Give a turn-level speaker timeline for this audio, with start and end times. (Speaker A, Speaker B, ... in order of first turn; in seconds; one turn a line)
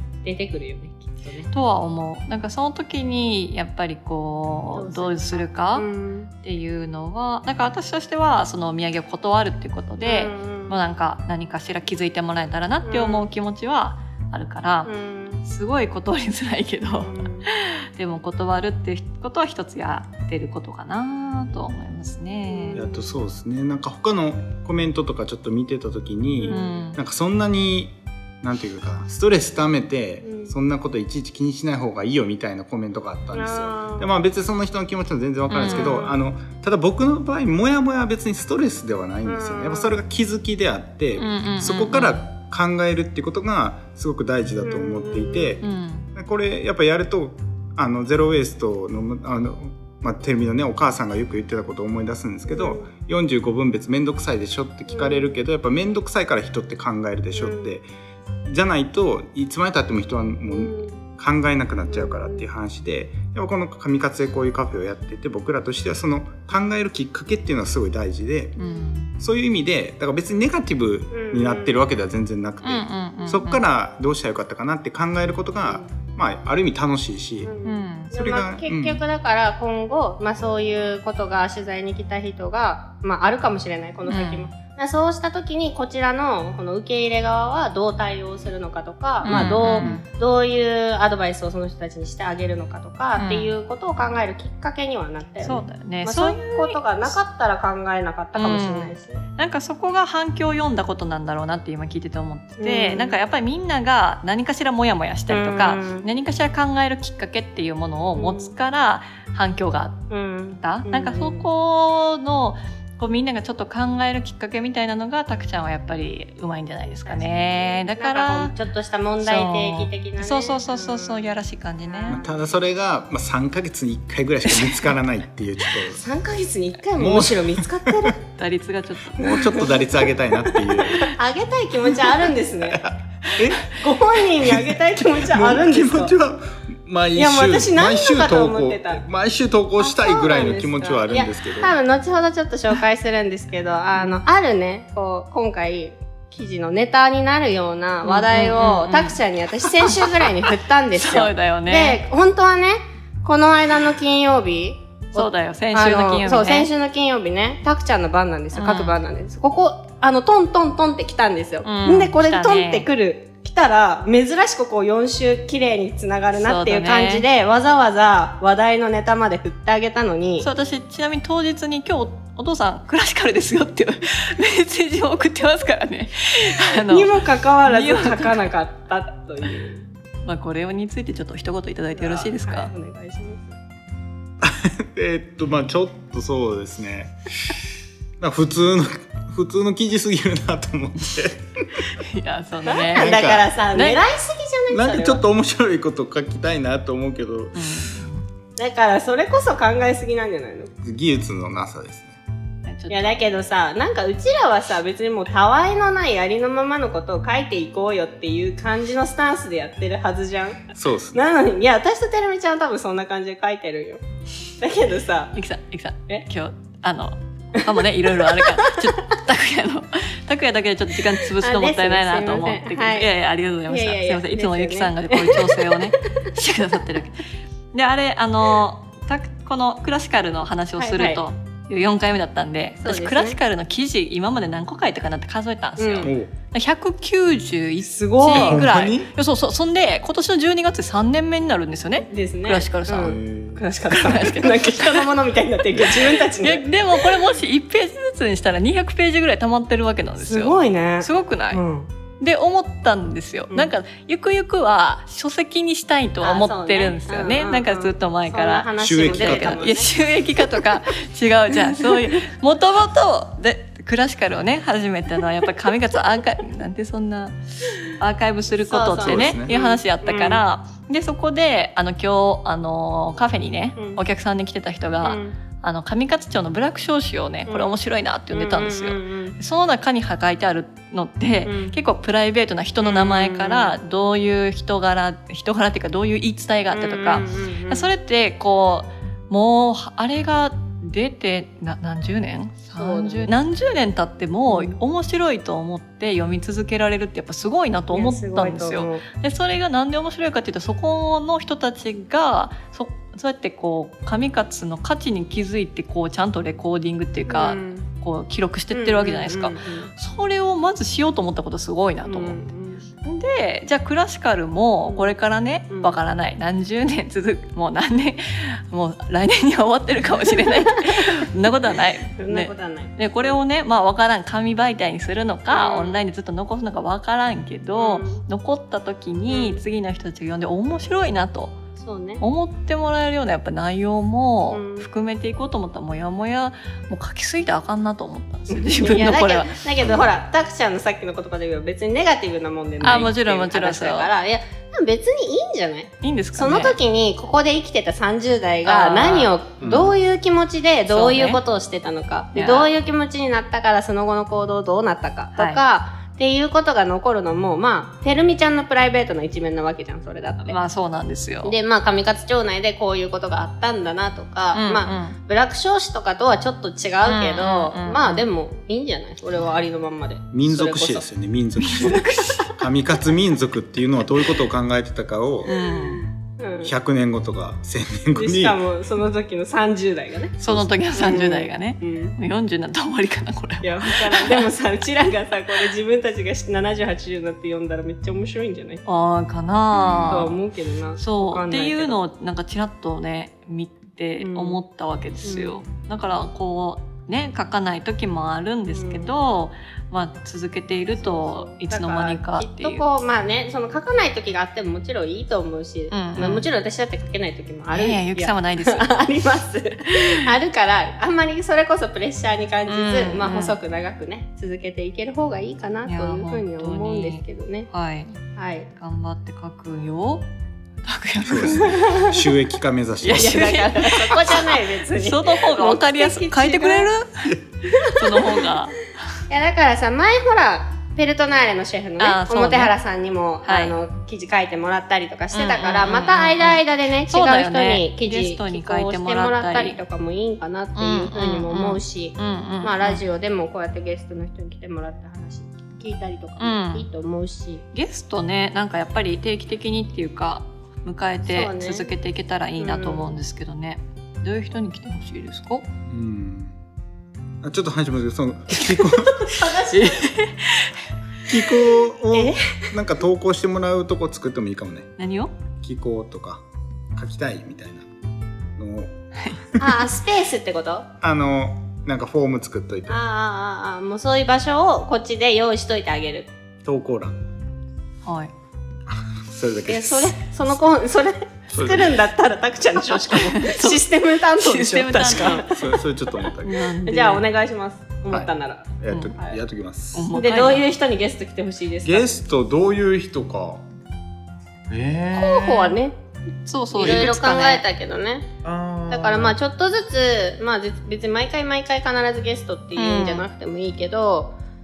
Speaker A: 0.2-1.5
Speaker B: 1.5-5.9
Speaker A: 4.7-6.3
Speaker B: 6.4-14.9
Speaker A: 10.0-10.8
Speaker A: 12.8-13.3
Speaker A: 14.8-15.4
Speaker B: 15.4-22.8
Speaker A: 16.9-17.5
Speaker A: 22.4-22.9
Speaker C: 22.7-45.6
Speaker A: 26.4-26.7
Speaker B: 26.5-27.0
Speaker A: 30.2-30.5
Speaker A: 33.3-34.1
Speaker B: 35.5-36.0
Speaker A: 35.6-36.2
Speaker A: 39.2-40.0
Speaker B: 41.2-42.2
Speaker A: 44.6-45.6
Speaker B: 45.6-46.1
Speaker C: 46.1-57.9
Speaker A: 52.5-52.9
Speaker A: 54.9-55.3
Speaker A: 57.3-57.7
Speaker C: 58.5-68.6
Speaker A: 60.5-61.0
Speaker A: 61.9-62.4
Speaker B: 68.6-69.1
Speaker C: 69.2-77.5
Speaker A: 71.1-71.8
Speaker B: 72.6-73.7
Speaker A: 75.7-75.9
Speaker A: 77.4-99.2
Speaker B: 77.6-78.1
Speaker C: 78.1-79.0
Speaker B: 84.1-84.5
Speaker B: 89.2-90.0
Speaker C: 89.2-90.0
Speaker B: 93.2-93.5
Speaker B: 95.4-97.1
Speaker B: 98.3-110.1
Speaker A: 102.6-103.2
Speaker A: 105.3-106.1
Speaker A: 108.2-108.5
Speaker A: 110.1-111.5
Speaker B: 110.6-118.5
Speaker A: 117.0-122.4
Speaker B: 119.2-122.2
Speaker C: 122.1-126.0
Speaker A: 125.9-128.2
Speaker C: 127.0-128.1
Speaker B: 128.4-129.6
Speaker C: 129.1-131.1
Speaker A: 129.2-129.8
Speaker A: 130.4-132.8
Speaker C: 132.7-133.7
Speaker A: 133.6-136.1
Speaker C: 134.3-141.8
Speaker A: 137.1-139.0
Speaker A: 139.8-170.5
Speaker B: 148.0-152.0
Speaker B: 155.1-156.7
Speaker B: 158.5-159.0
Speaker B: 161.6-162.9
Speaker B: 166.3-167.2
Speaker B: 170.4-178.4
Speaker A: 176.5-179.8
Speaker B: 180.2-182.7
Speaker A: 181.9-183.5
Speaker C: 184.4-187.5
Speaker C: 188.2-192.0
Speaker B: 191.9-193.2
Speaker A: 192.7-195.2
Speaker C: 192.9-193.5
Speaker B: 193.7-194.0
Speaker C: 194.7-197.9
Speaker B: 197.6-198.2
Speaker A: 198.6-200.7
Speaker C: 200.8-202.2
Speaker B: 202.6-203.2
Speaker A: 202.9-214.0
Speaker C: 210.7-211.2
Speaker A: 214.6-215.3
Speaker B: 215.3-243.2
Speaker A: 218.2-218.8
Speaker A: 221.2-223.1
Speaker A: 223.7-225.9
Speaker A: 230.8-231.2
Speaker A: 232.8-233.4
Speaker A: 235.8-236.1
Speaker C: 236.0-236.3
Speaker A: 237.9-238.7
Speaker C: 238.3-239.1
Speaker A: 242.1-247.1
Speaker C: 243.0-243.6
Speaker B: 243.9-245.1
Speaker B: 245.8-251.6
Speaker A: 250.2-251.9
Speaker B: 252.2-312.4
Speaker A: 256.2-259.9
Speaker C: 258.8-259.7
Speaker A: 261.8-262.2
Speaker A: 268.6-270.4
Speaker C: 269.0-269.5
Speaker A: 275.0-275.4
Speaker A: 277.5-277.7
Speaker A: 278.3-279.4
Speaker A: 281.4-281.7
Speaker A: 282.8-283.8
Speaker A: 286.7-287.9
Speaker A: 292.7-293.3
Speaker A: 294.5-294.8
Speaker A: 297.9-299.0
Speaker A: 307.3-307.9
Speaker A: 308.7-309.9
Speaker A: 312.0-312.9
Speaker B: 313.0-331.6
Speaker A: 314.9-315.2
Speaker A: 315.7-316.0
Speaker A: 320.4-321.0
Speaker A: 322.2-323.4
Speaker A: 325.5-325.9
Speaker A: 327.7-328.2
Speaker A: 329.3-329.6
Speaker A: 331.8-332.2
Speaker B: 332.2-339.6
Speaker A: 334.5-334.9
Speaker A: 338.5-360.6
Speaker C: 339.8-340.1
Speaker B: 342.8-344.1
Speaker B: 346.0-346.8
Speaker B: 348.6-349.3
Speaker C: 349.6-349.9
Speaker B: 350.9-351.4
Speaker B: 352.3-352.7
Speaker B: 355.4-355.6
Speaker B: 360.5-361.5
Speaker A: 361.4-371.1
Speaker B: 364.5-365.2
Speaker B: 367.0-368.2
Speaker C: 370.3-375.5
Speaker B: 371.7-372.5
Speaker B: 375.5-376.1
Speaker A: 375.6-376.7
Speaker C: 376.6-378.6
Speaker A: 378.1-382.1
Speaker B: 380.4-384.5
Speaker A: 383.6-388.8
Speaker B: 388.9-390.3
Speaker C: 389.7-390.3
Speaker A: 390.1-392.0
Speaker B: 391.0-402.8
Speaker A: 394.2-394.6
Speaker A: 395.2-395.6
Speaker A: 398.7-399.1
Speaker A: 400.9-417.7
Speaker B: 405.9-406.5
Speaker B: 407.7-408.9
Speaker B: 409.9-410.3
Speaker B: 412.7-413.6
Speaker B: 415.9-418.2
Speaker A: 418.3-418.7
Speaker B: 418.8-420.3
Speaker B: 420.8-421.8
Speaker C: 421.2-423.6
Speaker A: 421.6-422.1
Speaker B: 423.0-428.8
Speaker A: 423.1-426.9
Speaker A: 427.7-428.5
Speaker A: 429.3-447.6
Speaker B: 432.0-432.7
Speaker B: 433.4-433.7
Speaker B: 435.3-439.8
Speaker B: 440.8-443.0
Speaker B: 446.4-446.9
Speaker B: 447.7-455.7
Speaker A: 451.2-451.9
Speaker A: 452.6-453.0
Speaker C: 455.9-456.5
Speaker C: 457.4-459.3
Speaker A: 459.0-460.2
Speaker B: 459.7-460.7
Speaker C: 461.2-464.9
Speaker A: 462.1-462.7
Speaker B: 465.0-465.3
Speaker C: 465.6-466.4
Speaker C: 466.9-467.8
Speaker C: 468.6-468.9
Speaker A: 469.6-470.9
Speaker C: 471.0-473.0
Speaker A: 472.9-476.3
Speaker C: 476.6-477.2
Speaker B: 478.0-478.3
Speaker C: 478.9-480.1
Speaker A: 479.7-485.6
Speaker C: 481.5-481.9
Speaker B: 482.9-485.5
Speaker C: 485.5-486.6
Speaker B: 486.4-487.2
Speaker A: 486.8-489.4
Speaker C: 488.1-490.1
Speaker B: 489.9-490.7
Speaker A: 490.1-492.1
Speaker C: 491.8-493.6
Speaker C: 494.7-495.8
Speaker A: 495.1-495.9
Speaker B: 496.4-497.6
Speaker A: 496.7-498.3
Speaker C: 498.4-499.4
Speaker A: 498.9-504.4
Speaker B: 502.8-503.3